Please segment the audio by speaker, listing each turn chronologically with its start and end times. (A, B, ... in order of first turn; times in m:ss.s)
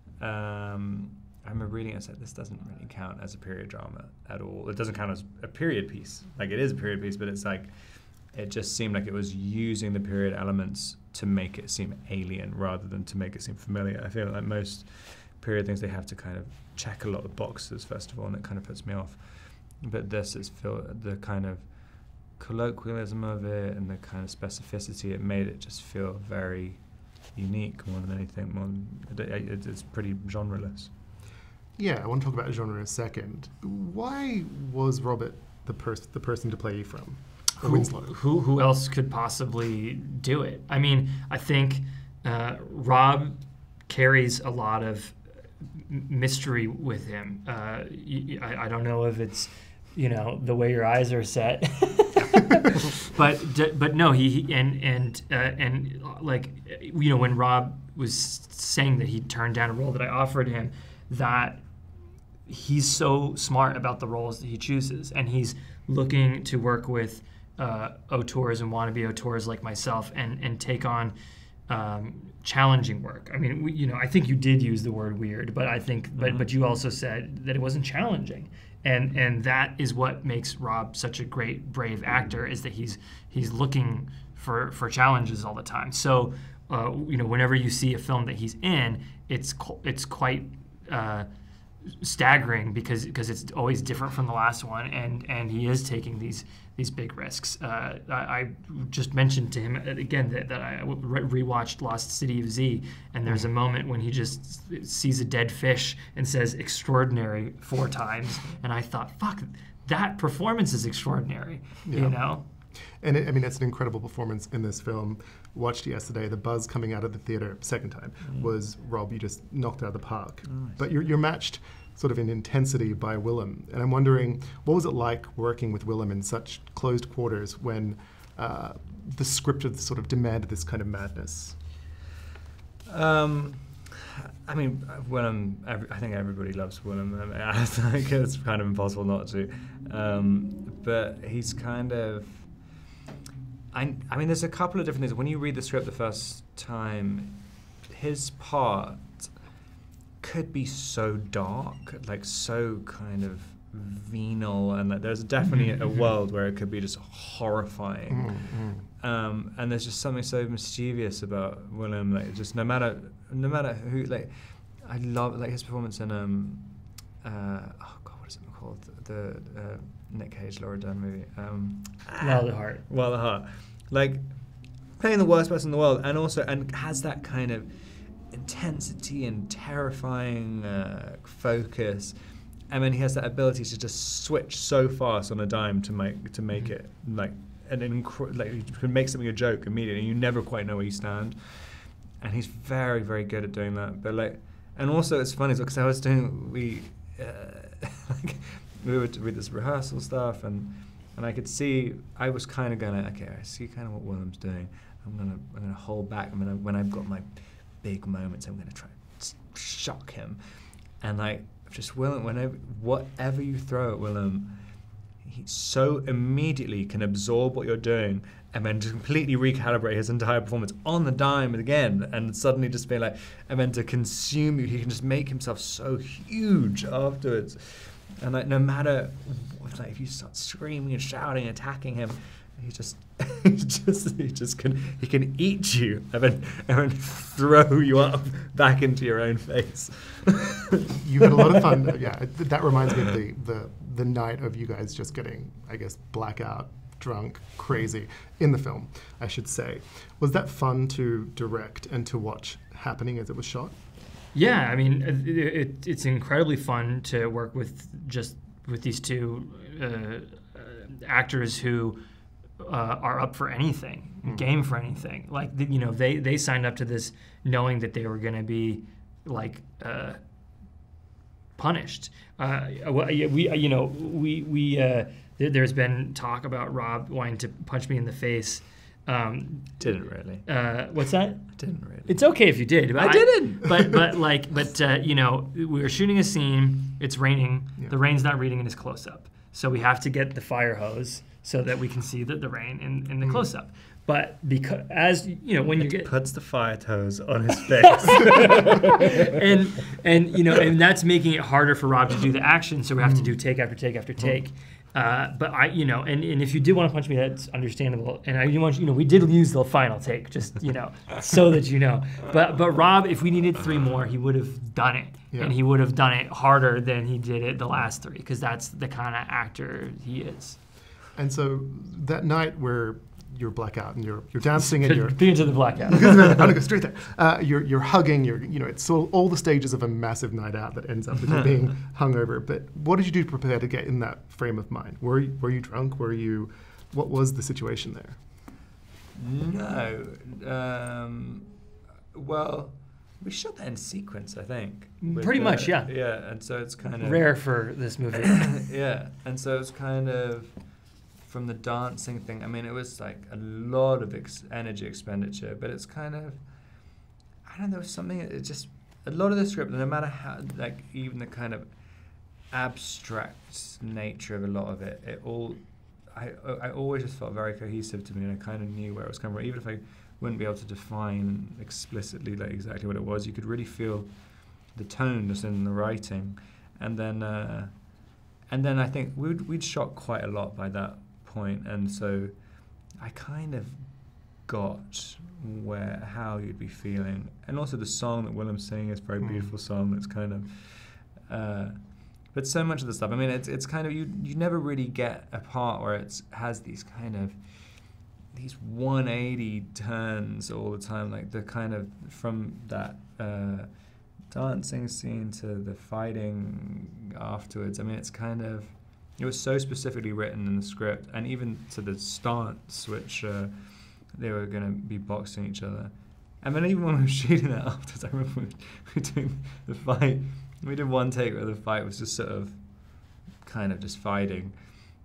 0:00.2-0:30.9 A
0:31.8-0:38.2 B
0:37.6-0:45.2 C
0:45.8-1:01.6 C
1:02.5-1:11.2 C
1:11.7-1:31.3 C
1:16.2-1:16.5 A
1:31.9-1:52.4 C
1:51.9-2:11.6 B
2:00.5-2:00.8 A
2:12.9-2:22.6 A
2:23.7-2:29.3 A
2:30.2-3:02.2 A
2:38.1-2:38.9 B
2:52.2-2:52.8 C
3:02.7-3:30.4 A
3:31.0-4:00.8 A
4:01.0-4:13.7 B
4:14.3-4:22.0 C
4:22.6-4:30.2 C
4:31.6-4:39.8 C
4:39.8-4:40.5 A
4:40.4-4:41.5 C
4:41.6-4:42.2 A
4:42.1-4:56.1 C
4:43.0-4:43.7 A
4:55.8-4:59.1 A
4:57.9-5:20.6 C
5:03.0-5:03.3 B
5:21.2-5:38.2 B
5:24.6-5:26.5 C
5:39.2-5:41.5 A
5:42.1-5:47.4 A
5:45.0-5:45.9 C
5:47.0-5:48.4 C
5:48.2-5:50.6 A
5:51.2-5:56.4 A
5:57.4-6:43.7 A
6:29.2-6:29.5 B
6:44.3-7:04.6 A